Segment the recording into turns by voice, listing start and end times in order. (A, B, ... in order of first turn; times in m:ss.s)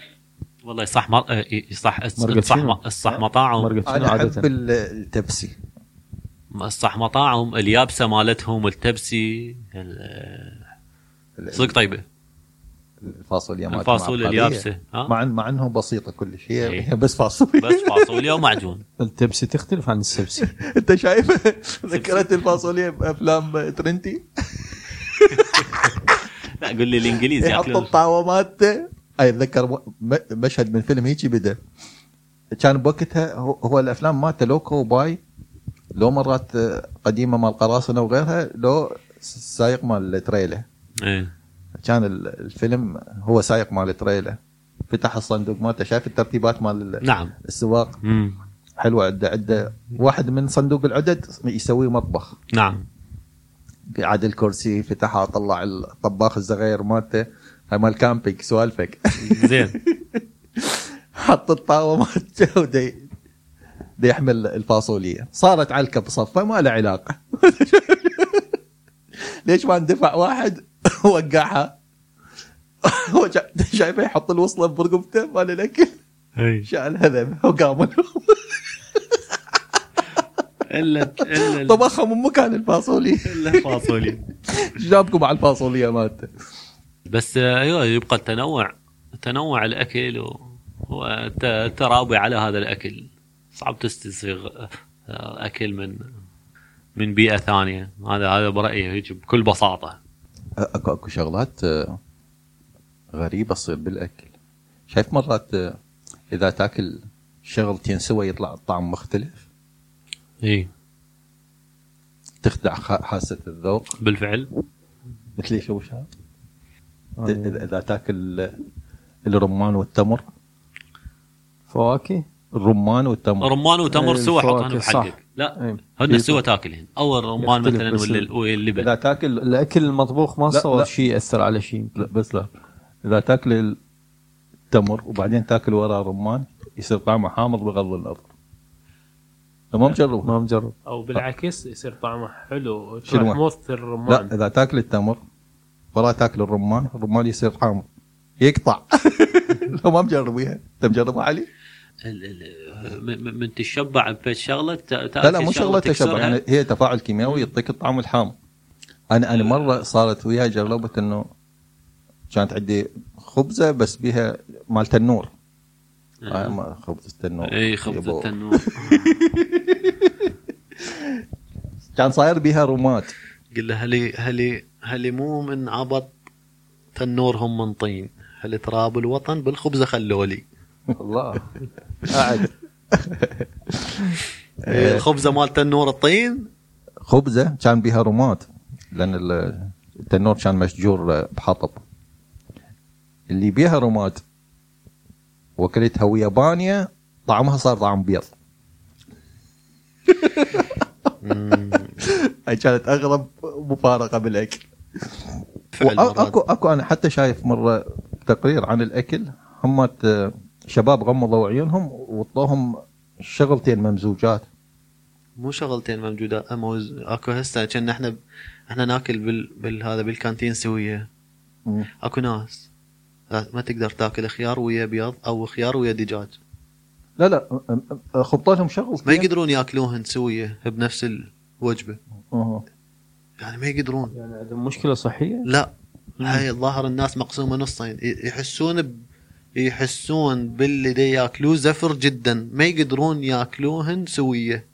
0:00.6-0:03.8 A
0:02.2-0:02.8 B
0:03.6-0:04.5 B
0:03.9-0:05.6 C
0:06.5-0:10.6 A
0:11.4-0:11.8 C
0:11.5-0:12.0 A
0:13.0-0:18.5 C
0:13.7-0:15.1 A
0:16.6-0:16.9 A
0:17.6-0:18.8 A
0:19.0-0:20.5 B
0:20.4-0:25.9 C
0:21.9-0:22.4 A
0:25.3-0:26.0 A
0:26.6-0:27.9 A
0:27.4-0:31.6 C
0:32.6-0:35.2 C
0:36.0-0:40.6 C
0:41.0-0:41.3 A
0:41.8-0:44.4 C
0:44.9-0:48.0 C
0:47.0-0:47.4 A
0:48.0-0:48.4 A
0:48.8-0:52.4 C
0:52.5-0:52.8 A
0:53.9-1:03.0 C
0:59.2-0:59.8 A
1:04.0-1:08.5 C
1:09.5-1:11.8 C
1:12.8-1:16.0 C
1:16.4-1:16.7 A
1:16.7-1:19.4 C
1:20.7-1:21.9 A
1:21.2-1:26.3 C
1:23.3-1:24.2 A
1:27.1-1:36.0 A
1:37.0-1:40.0 A
1:40.6-1:42.0 C
1:43.1-1:44.3 C
1:44.9-1:45.7 C
1:46.3-1:49.4 C
1:50.4-1:50.7 A
1:52.4-1:53.9 C
1:54.0-1:54.5 A
1:55.4-1:56.1 C
1:57.2-1:57.6 B
1:57.3-1:58.6 C
1:59.2-2:00.2 C
2:01.7-2:02.2 B
2:02.5-2:03.5 C
2:03.4-2:08.9 A
2:03.9-2:05.8 B
2:06.1-2:06.4 C
2:07.4-2:08.3 B
2:08.8-2:09.5 C
2:09.4-2:12.0 B
2:10.5-2:10.9 C
2:12.0-2:12.5 C
2:13.0-2:13.8 C
2:14.7-2:18.3 C
2:19.7-2:20.3 C
2:20.2-2:20.8 B
2:20.9-2:24.3 D
2:23.1-2:23.4 C
2:24.1-2:25.2 C
2:25.9-2:27.9 C
2:28.4-2:31.5 C
2:32.0-2:36.4 A
2:35.2-2:38.4 C
2:39.1-2:41.3 C
2:39.4-2:39.7 A
2:42.3-2:45.3 C
2:46.2-2:46.6 A
2:46.3-2:50.3 C
2:47.4-2:49.2 A
2:50.8-2:51.2 C
2:52.0-2:53.1 C
2:53.5-2:56.1 A
2:57.0-3:00.5 A
3:00.9-3:01.5 C
3:02.1-3:05.0 C
3:02.2-3:02.4 B
3:04.7-3:06.5 A
3:07.0-3:11.8 C
3:13.3-3:14.2 C
3:15.6-3:18.3 C
3:20.1-3:21.1 C
3:21.2-3:22.0 A
3:21.7-3:34.5 C
3:25.7-3:26.4 A
3:35.4-3:38.1 A
3:38.7-3:41.1 A
3:42.0-3:42.7 A
3:43.3-3:46.4 A
3:47.2-3:49.3 C
3:49.1-3:52.0 A
3:52.3-3:52.6 C
3:53.4-3:54.1 A
3:54.1-3:55.5 B
3:55.5-3:59.0 A
3:59.6-4:04.6 A